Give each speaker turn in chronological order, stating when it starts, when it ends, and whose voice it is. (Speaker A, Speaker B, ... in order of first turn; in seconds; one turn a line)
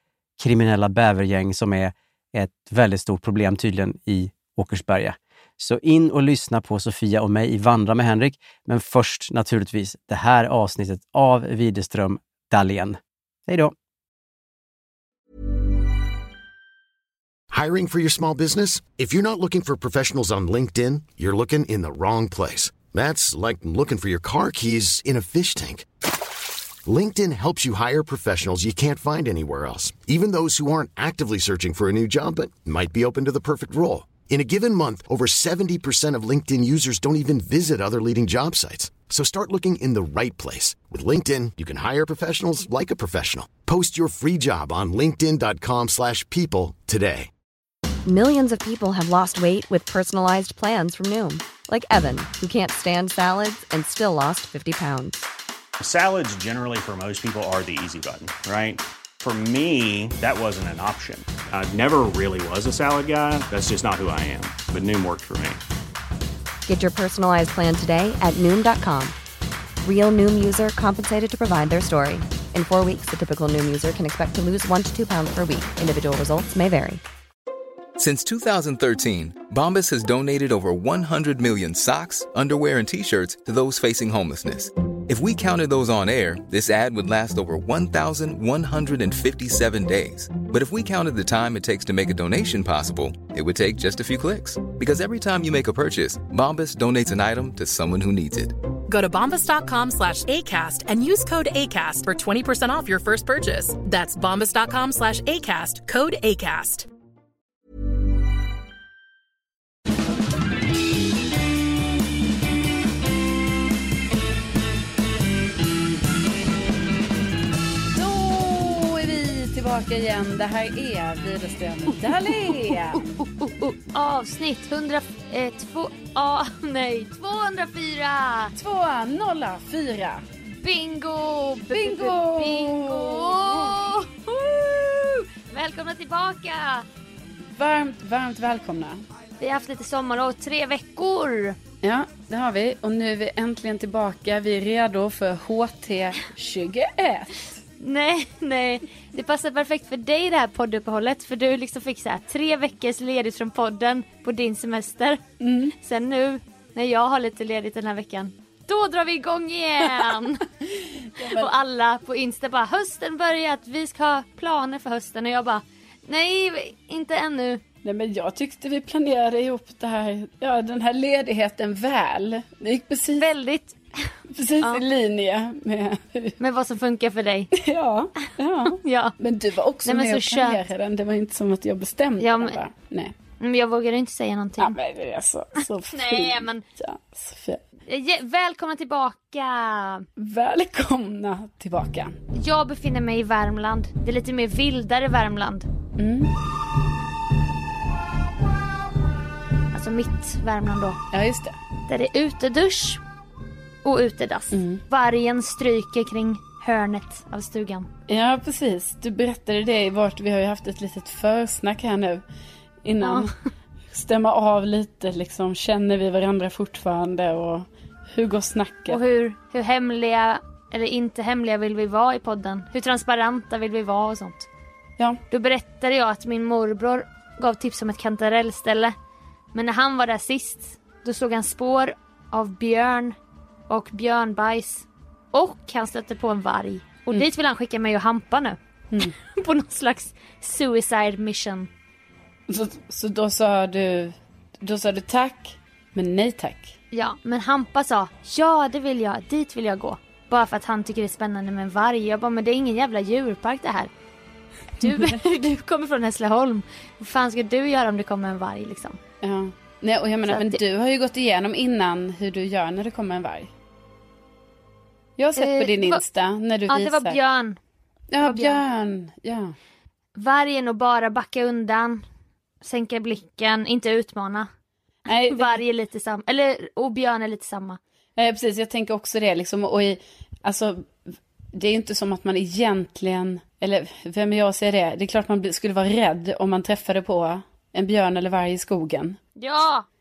Speaker A: 0.4-13.8
Speaker B: 17.5-25.9
Speaker B: 26.9-47.3
Speaker C: 48.1-55.2
Speaker D: 55.8-65.6
Speaker C: 66.7-69.2
Speaker C: 69.8-77.0
Speaker E: 78.0-98.6
Speaker F: 98.9-106.9
Speaker G: 117.9-123.2
Speaker H: 123.2-128.6
Speaker G: 128.6-130.2
Speaker H: 130.6-136.9
Speaker G: 131.7-133.8
Speaker G: 137.5-139.1
Speaker H: 139.4-141.6
Speaker G: 141.8-147.5
Speaker H: 147.8-155.2
Speaker G: 155.4-155.7
Speaker H: 155.8-160.5
Speaker G: 161.2-161.5
Speaker H: 161.3-167.6
Speaker G: 167.8-173.3
Speaker H: 173.2-174.8
Speaker G: 174.3-176.4
Speaker H: 176.4-177.5
Speaker G: 177.6-183.1
Speaker H: 178.7-179.2
Speaker H: 179.9-180.6
Speaker H: 182.2-182.6
Speaker H: 183.4-184.8
Speaker G: 184.6-187.6
Speaker H: 185.6-186.6
Speaker H: 187.9-190.1
Speaker G: 190.2-192.2
Speaker H: 192.3-195.7
Speaker G: 196.0-196.3
Speaker H: 199.7-201.0
Speaker G: 201.1-201.6
Speaker H: 201.9-203.0
Speaker H: 203.8-207.9
Speaker G: 204.5-204.8
Speaker G: 208.1-212.2
Speaker G: 212.8-213.3
Speaker H: 213.0-213.3
Speaker G: 213.9-219.0
Speaker H: 218.9-224.5
Speaker H: 225.3-228.9
Speaker H: 229.5-233.2
Speaker H: 233.7-241.7
Speaker G: 242.5-246.7
Speaker H: 246.9-253.9
Speaker H: 254.8-259.0
Speaker G: 259.2-263.5
Speaker H: 260.3-260.6
Speaker G: 265.2-267.2
Speaker H: 265.4-266.0
Speaker H: 266.7-267.6
Speaker G: 268.1-269.6
Speaker H: 268.2-268.6
Speaker H: 270.2-272.0
Speaker H: 272.6-274.5
Speaker G: 275.1-275.5
Speaker H: 275.1-277.8
Speaker G: 278.2-281.0
Speaker G: 281.5-289.2
Speaker H: 289.4-289.9